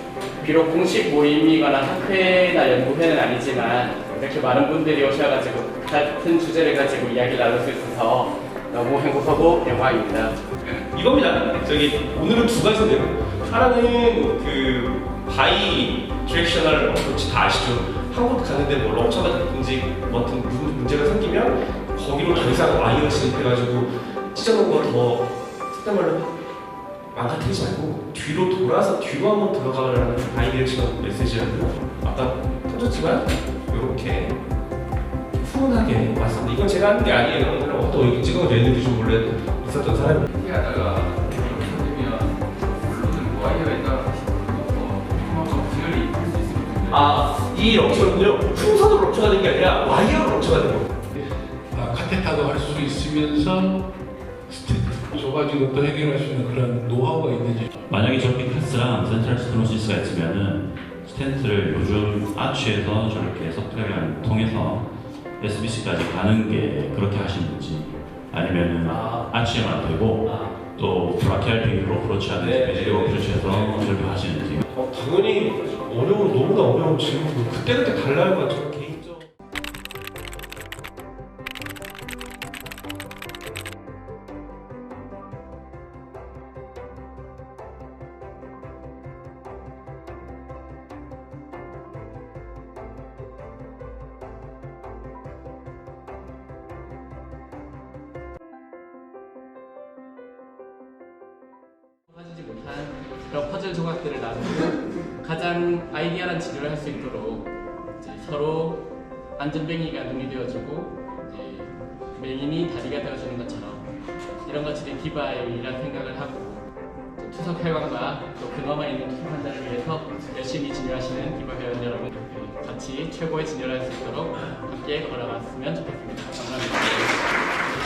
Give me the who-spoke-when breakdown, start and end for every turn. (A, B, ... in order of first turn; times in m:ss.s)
0:00.4-0:10.4 A
0:10.9-0:26.3 B
0:27.1-0:34.4 B
0:35.4-0:40.3 B
0:40.3-0:47.1 C
0:46.9-0:50.9 B
0:51.7-0:53.8 D
0:54.5-0:57.7 D
0:57.9-1:04.8 E
1:05.4-1:14.6 E
1:08.8-1:09.2 B
1:12.4-1:13.9 B
1:14.7-1:19.3 B
1:42.1-1:48.8 A
1:49.4-1:53.9 A
1:54.4-1:56.6 A
1:57.2-2:07.3 A